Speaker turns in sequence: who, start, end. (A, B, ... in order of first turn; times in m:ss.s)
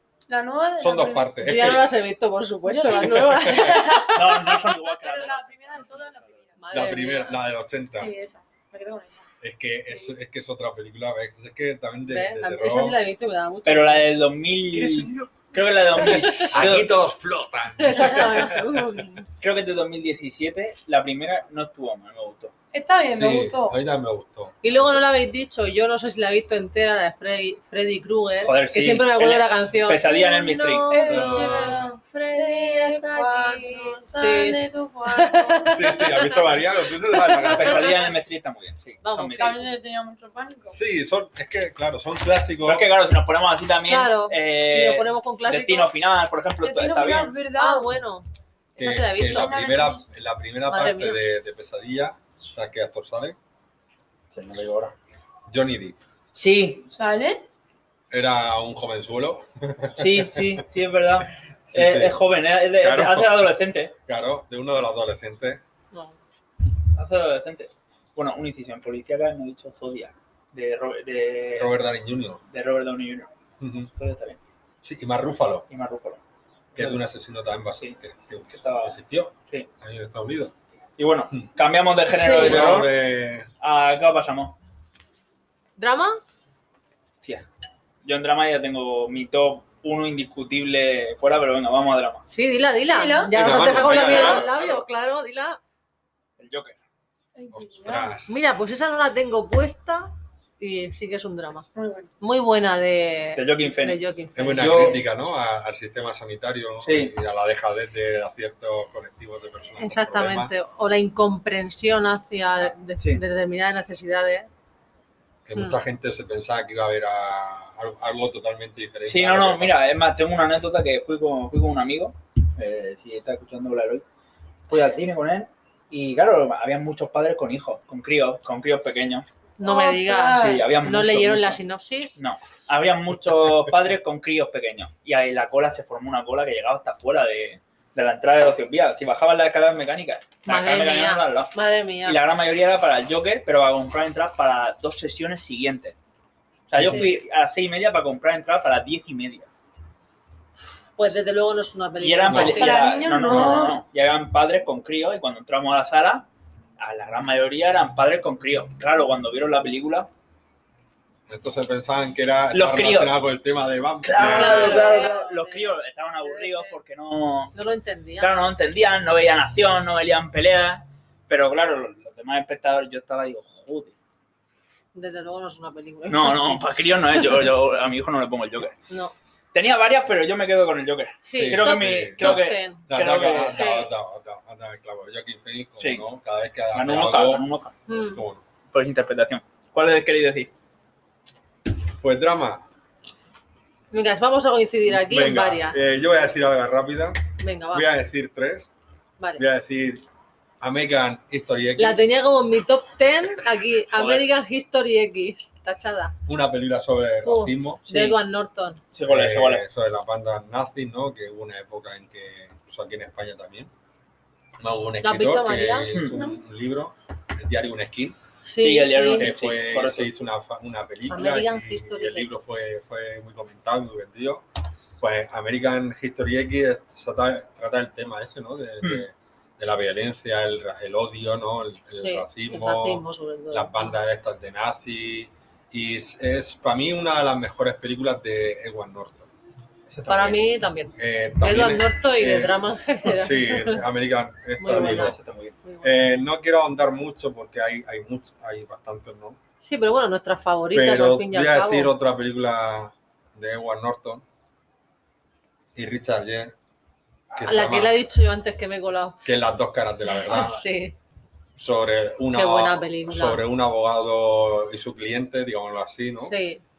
0:00.3-0:01.7 A
0:00.8-0:01.9 B
0:01.4-0:04.4 C
0:02.6-0:06.9 A
0:03.4-0:03.9 B
0:04.1-0:06.4 D
0:06.6-0:07.4 C
0:06.7-0:08.1 B
0:07.9-0:09.3 A
0:09.4-0:13.0 B
0:12.1-0:14.1 C
0:13.6-0:16.9 D
0:14.7-0:15.4 B
0:15.9-0:19.0 B
0:16.1-0:16.5 C
0:17.8-0:19.2 C
0:18.0-0:18.3 A
0:19.4-0:22.5 D
0:22.7-0:23.8 A
0:23.1-0:24.9 B
0:24.6-0:36.4 C
0:28.4-0:31.0 D
0:30.9-0:35.9 A
0:31.1-0:31.8 B
0:35.7-0:38.0 B
0:37.1-0:37.9 C
0:37.4-0:39.6 D
0:39.0-0:39.7 C
0:39.4-0:40.8 A
0:40.7-0:42.9 B
0:42.6-0:47.4 D
0:43.9-0:45.9 C
0:46.6-0:47.9 A
0:47.6-0:49.7 C
0:48.8-0:53.4 B
0:49.1-0:50.0 A
0:50.7-0:51.2 C
0:54.3-0:54.9 D
0:55.5-0:56.0 B
0:56.3-0:56.9 D
0:56.9-0:57.4 A
0:58.1-1:00.6 B
1:00.0-1:03.9 D
1:01.7-1:02.2 B
1:02.8-1:03.5 B
1:04.0-1:05.6 B
1:05.9-1:06.2 C
1:06.9-1:11.7 D
1:11.5-1:12.4 B
1:12.5-1:13.3 D
1:13.6-1:13.9 B
1:14.0-1:14.4 D
1:14.8-1:15.6 B
1:15.7-1:16.2 D
1:16.7-1:20.5 B
1:18.5-1:19.0 D
1:21.0-1:22.9 D
1:22.1-1:22.8 C
1:22.2-1:23.5 B
1:23.6-1:24.6 D
1:25.8-1:26.2 C
1:28.0-1:32.2 D
1:32.3-1:35.6 C
1:32.8-1:33.6 A
1:33.3-1:34.5 B
1:33.6-1:34.8 D
1:36.4-1:36.8 D
1:37.3-1:38.1 A
1:37.5-1:38.4 B
1:38.3-1:41.7 C
1:41.7-1:42.1 A
1:42.2-1:45.0 C
1:43.4-1:44.0 D
1:44.4-1:50.5 B
1:44.6-1:45.0 D
1:46.8-1:47.1 D
1:49.8-1:54.5 C
1:55.4-1:59.8 B
1:59.1-2:04.0 D
2:04.7-2:09.2 D
2:09.6-2:12.2 C
2:09.6-2:10.7 A
2:10.3-2:11.6 D
2:12.2-2:21.5 D
2:20.4-2:22.2 C
2:22.0-2:25.9 D
2:26.7-2:29.5 D
2:26.7-2:27.1 B
2:26.8-2:27.1 C
2:31.0-2:33.0 C
2:32.0-2:36.3 D
2:32.3-2:32.6 B
2:32.5-2:33.8 A
2:33.3-2:33.7 B
2:36.8-2:40.1 D
2:41.3-2:44.9 B
2:42.5-2:43.1 D
2:44.0-2:47.5 D
2:44.2-2:46.7 C
2:44.6-2:45.1 A
2:47.5-2:48.5 C
2:48.2-2:53.9 D
2:54.9-2:57.4 C
2:56.1-2:58.8 D
2:58.9-2:59.1 C
2:59.5-3:03.8 D
3:01.2-3:02.8 C
3:01.3-3:08.4 B
3:03.5-3:03.9 C
3:05.8-3:06.0 D
3:06.7-3:07.8 D
3:07.9-3:08.2 C
3:08.7-3:10.5 D
3:11.9-3:12.6 B
3:13.9-3:15.8 C
3:14.8-3:18.7 B
3:17.4-3:17.9 C
3:19.4-3:20.0 B
3:20.6-3:22.0 B
3:21.8-3:26.1 C
3:23.9-3:24.3 D
3:26.2-3:27.9 B
3:27.2-3:28.8 C
3:27.9-3:28.1 D
3:28.9-3:29.6 D
3:29.0-3:33.7 B
3:34.6-3:38.2 B
3:35.0-3:35.9 C
3:36.1-3:36.4 A
3:38.4-3:39.3 C
3:38.6-3:40.1 D
3:39.1-3:44.4 B
3:41.1-3:42.3 C
3:45.0-3:59.3 B
3:51.9-3:53.9 C
3:59.9-4:00.3 D
4:00.0-4:00.4 B
4:00.1-4:03.8 C
4:01.0-4:05.2 B
4:04.6-4:05.9 C
4:04.6-4:05.6 D
4:05.8-4:09.4 B
4:09.6-4:11.9 C
4:10.7-4:14.2 B
4:15.7-4:16.6 B
4:17.3-4:18.0 B
4:17.4-4:19.2 C
4:19.2-4:20.5 B
4:20.1-4:20.9 C
4:20.3-4:20.6 D
4:21.6-4:26.3 B
4:22.3-4:23.4 C
4:26.2-4:26.6 C